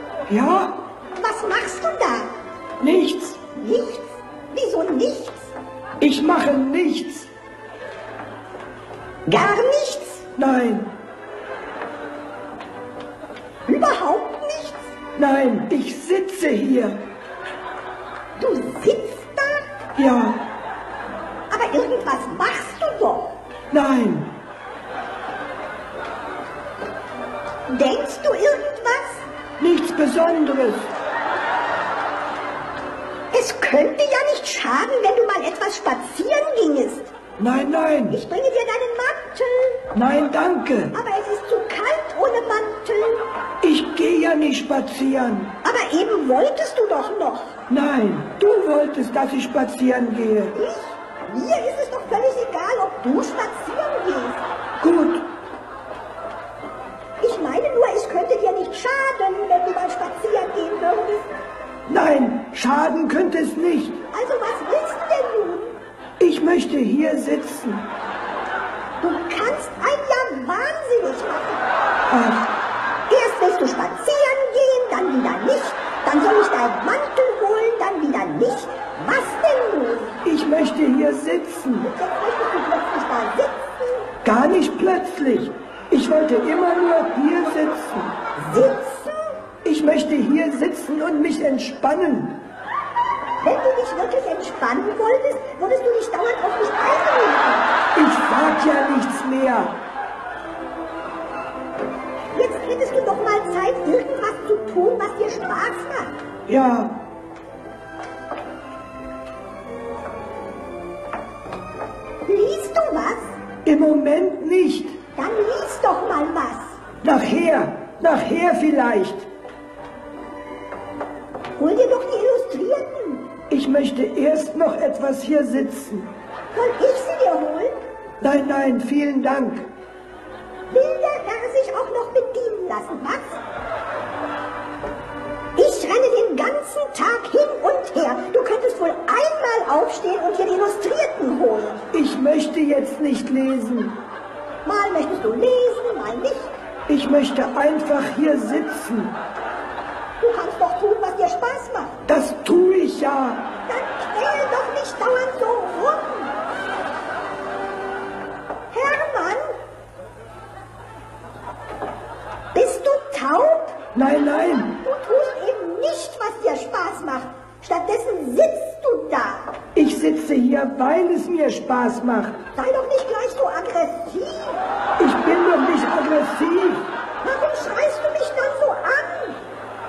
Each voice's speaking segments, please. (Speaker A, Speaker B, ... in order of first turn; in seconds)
Speaker A: 0.3-0.8, 2.8-3.4, 6.0-7.3, 10.4-10.9, 15.2-17.0, 20.0-20.4, 23.7-24.3, 29.6-30.9, 37.4-38.2, 39.9-41.0, 43.6-45.5, 47.7-50.5, 54.8-55.2, 61.9-64.0, 66.2-67.9, 72.1-72.5, 80.2-81.9, 84.2-88.2, 89.6-92.4, 97.9-99.8, 106.5-107.0, 113.7-115.0, 117.0-119.3, 123.5-126.1, 128.2-129.7, 141.9-144.0, 146.9-149.1, 152.1-153.4, 163.9-164.7, 169.8-172.4, 175.0-176.9
Speaker B: 1.2-2.3, 3.5-5.5, 9.3-10.3, 13.7-14.8, 18.4-19.7, 21.5-23.4, 27.7-29.2, 33.3-37.1, 38.1-39.9, 40.9-43.3, 45.6-47.6, 50.5-54.4, 57.2-61.3, 64.1-65.8, 69.0-71.7, 73.1-80.2, 81.8-84.1, 88.4-89.4, 93.4-97.7, 102.3-106.2, 112.3-113.3, 115.1-116.8, 121.6-123.3, 126.5-127.8, 130.7-133.4, 135.6-141.8, 144.7-146.5, 150.2-152.0, 153.7-156.3, 158.7-159.5, 162.5-163.8, 164.7-169.5, 172.6-174.6, 177.2-179.4